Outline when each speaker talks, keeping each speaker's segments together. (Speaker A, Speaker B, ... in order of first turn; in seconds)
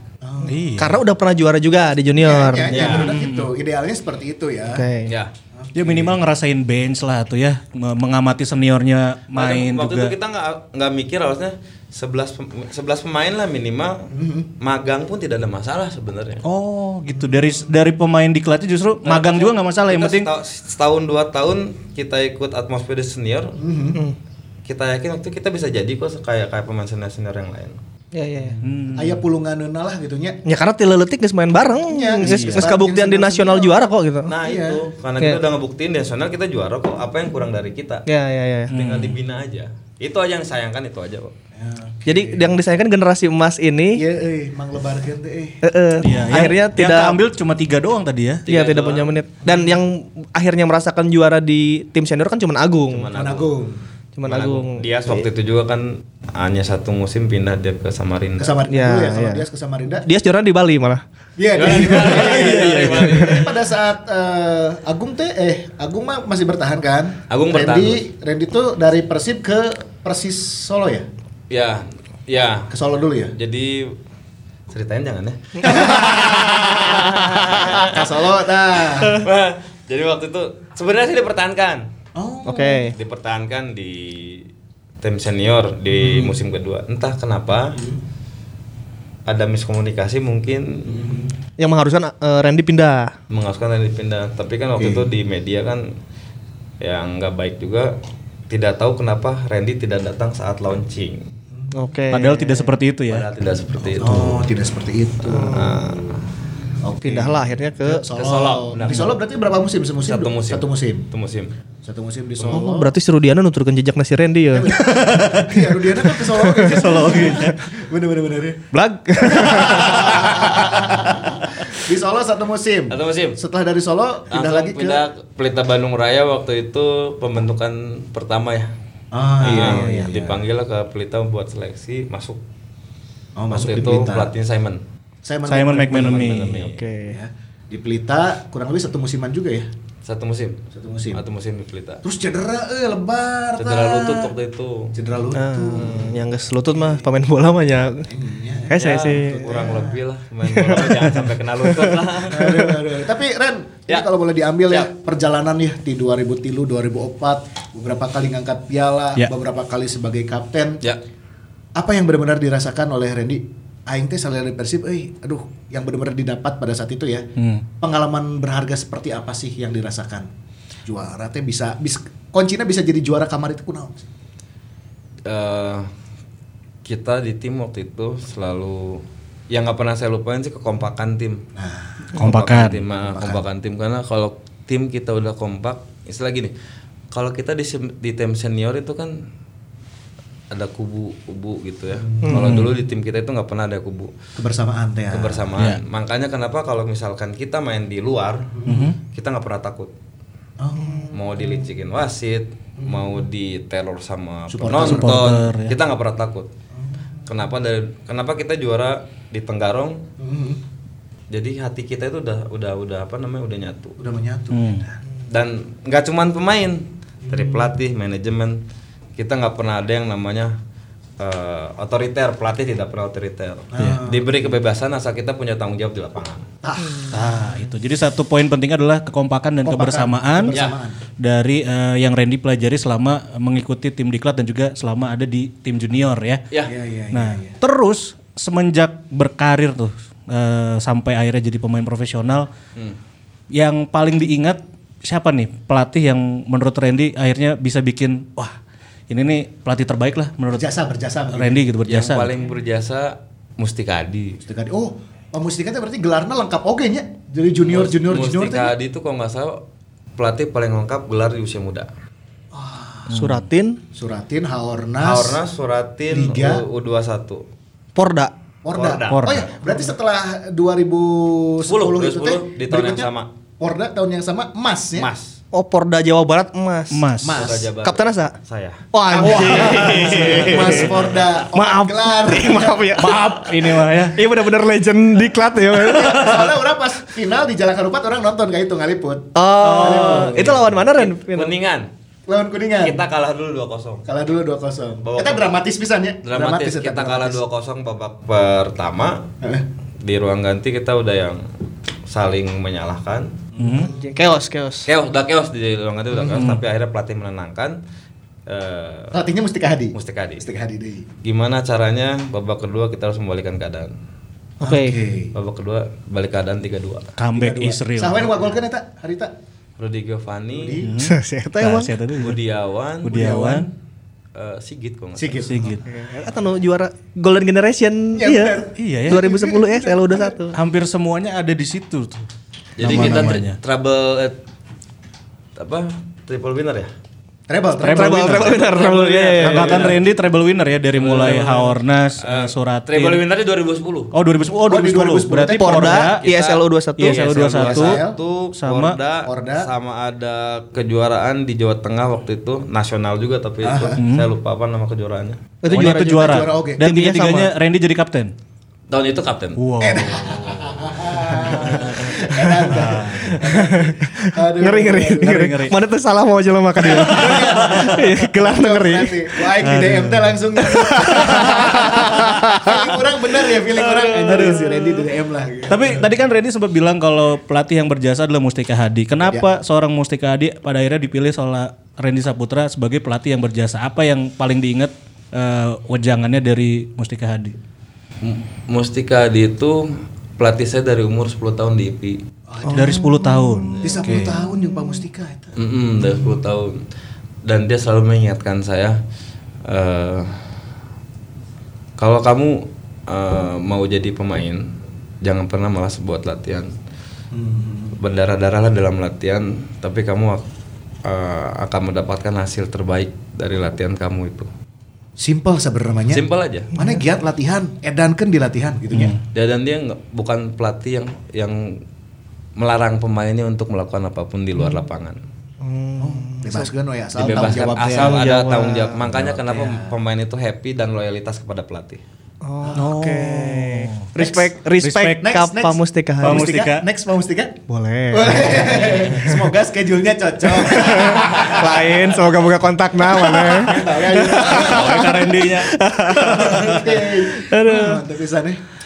Speaker A: 0.2-0.8, 2.2-4.9, 5.6-6.2, 14.1-14.5, 16.8-17.7, 23.6-24.0, 28.9-30.4, 31.9-33.8, 34.4-34.8, 41.6-42.6, 44.0-45.6, 49.5-49.8, 53.1-53.8, 58.4-60.1, 61.4-71.1, 72.7-73.3, 75.6-79.3, 82.2-82.9, 86.0-86.3, 90.9-91.3, 94.8-95.1, 104.0-105.8, 106.8-111.1, 111.8-112.9, 114.5-118.7, 119.2-125.0, 129.1-130.4, 133.4-134.3, 135.2-136.4, 137.1-139.7, 140.7-141.2, 142.0-144.3, 144.9-146.2, 146.8-147.0, 148.1-150.0, 152.2-160.8, 161.8-167.3, 167.8-170.3, 170.9-174.1, 181.6-182.2, 182.9-183.4, 192.0-192.3, 194.4-195.5, 198.6-198.9, 200.6-201.6, 202.8-203.2, 204.5-205.2, 206.7-207.3, 210.2-210.6, 214.0-215.0, 217.3-217.7, 223.7-224.5, 226.6-227.4, 229.6-231.0, 236.6-237.6, 250.5-251.6, 254.4-258.7, 262.5-263.1, 263.9-265.4, 266.1-266.6, 268.6-275.1, 277.2-277.7, 279.1-283.3, 285.7-290.7, 292.3-293.0, 294.1-297.4, 303.6-304.0, 306.1-306.4, 309.1-311.1, 314.6-315.3, 317.3-319.3, 320.5-320.9, 323.1-323.7, 325.2-325.8, 328.1-330.4, 332.8-333.4, 337.5-338.8, 344.7-346.1, 347.6-348.2, 349.2-349.7, 353.6-354.0, 355.7-356.9, 359.8-365.6, 366.8-376.0, 392.5-393.1, 393.8-395.6, 407.3-408.0, 415.2-419.1, 426.0-428.2, 429.1-429.9, 432.6-432.9, 434.2-434.5, 435.2-442.1, 443.0-445.2, 446.1-448.6
Speaker B: 0.4-1.0, 2.8-3.5, 5.7-10.1, 16.5-20.3, 28.6-29.2, 32.2-32.7, 38.7-39.2, 46.0-48.5, 102.1-103.3, 114.8-115.6, 116.6-117.6, 135.5-136.7, 167.4-167.6, 182.2-182.8, 192.3-192.7, 195.6-195.8, 198.7-198.9, 204.7-205.7, 214.5-214.8, 227.1-230.6, 231.2-236.4, 237.1-242.5, 243.5-248.6, 249.1-250.7, 251.3-252.3, 263.1-263.4, 269.1-269.8, 276.9-277.4, 279.5-280.5, 282.9-284.2, 289.6-290.6, 303.6-303.9, 306.3-306.6, 317.2-318.4, 320.8-322.4, 323.0-323.7, 325.4-325.8, 328.8-329.2, 330.5-332.3, 332.8-333.6, 337.8-338.7, 339.4-343.2, 344.1-346.2, 347.0-348.0, 348.6-349.0, 354.0-354.3, 355.7-358.3, 359.6-360.7, 361.3-362.1, 362.7-363.4, 365.0-365.8, 366.9-368.1, 369.6-370.2, 371.3-372.1, 374.3-374.6, 375.7-387.6, 392.7-394.4, 418.9-419.2, 432.8-434.1, 434.8-435.2, 436.2-436.9, 444.2-446.9
Speaker C: 0.8-3.0, 4.7-5.1, 28.1-28.6, 30.4-34.3, 38.1-38.7, 42.1-44.0, 45.6-47.2, 48.5-53.1, 54.2-55.2, 58.7-59.4, 60.0-61.0, 61.6-63.5, 82.5-83.0, 91.6-93.1, 101.7-102.7, 105.3-105.8, 107.0-108.0, 112.5-114.8, 116.2-117.5, 118.7-121.1, 129.5-130.1, 136.6-137.2, 145.3-148.1, 148.7-149.5, 150.4-152.7, 192.3-192.6, 263.1-263.8, 267.9-268.3, 275.5-277.1, 277.8-278.4, 278.9-280.9, 281.5-286.5, 289.4-291.6, 303.9-304.9, 314.6-315.0, 321.0-321.9, 325.8-330.6, 337.8-339.9, 345.5-347.3, 355.6-357.5, 363.4-369.4, 370.6-374.9, 392.6-393.7, 416.7-417.0, 425.6-426.7, 427.9-429.1, 432.4-436.6, 437.7-439.4, 440.5-448.0
Speaker D: 2.7-3.2, 5.1-5.3, 9.3-16.4, 19.0-23.6, 24.7-27.8, 34.3-38.0, 38.7-41.3, 48.5-49.1, 52.9-53.5, 54.2-58.6, 61.5-63.6, 67.3-68.0, 71.5-72.7, 73.3-74.0, 74.7-78.1, 79.0-81.9, 82.9-84.5, 85.0-87.8, 89.3-91.1, 93.3-95.9, 96.8-98.0, 98.5-101.3, 103.1-104.4, 105.3-106.2, 108.2-109.1, 110.0-111.5, 122.9-123.4, 124.3-128.7, 129.4-132.4, 133.5-134.8, 135.9-136.8, 140.0-140.6, 141.1-142.0, 143.6-144.9, 148.8-152.5, 175.3-175.9, 176.8-181.4, 182.1-186.5, 187.1-189.2, 190.5-194.1, 195.1-198.6, 199.1-199.9, 201.1-206.5, 207.3-210.0, 211.3-214.0, 215.3-218.6, 219.2-220.6, 221.2-226.5, 251.9-254.4, 257.6-259.6, 260.2-261.9, 265.0-267.4, 268.7-269.4, 271.7-273.3, 274.9-275.4, 277.3-281.1, 290.8-291.9, 292.8-294.1, 295.0-295.5, 296.2-299.3, 300.0-301.4, 302.1-303.4, 304.9-307.8, 308.5-309.1, 309.9-310.4, 311.2-313.9, 315.4-317.1, 319.8-320.8, 322.2-323.4, 324.4-325.5, 332.8-334.4, 335.6-336.9, 338.6-340.0, 340.9-344.1, 346.2-355.5, 358.9-360.5, 388.2-392.2, 395.6-396.8, 397.4-399.0, 399.6-400.4, 402.0-406.7, 408.0-410.4, 411.1-414.5, 416.1-416.7, 419.3-421.8, 422.6-425.2, 427.2-432.0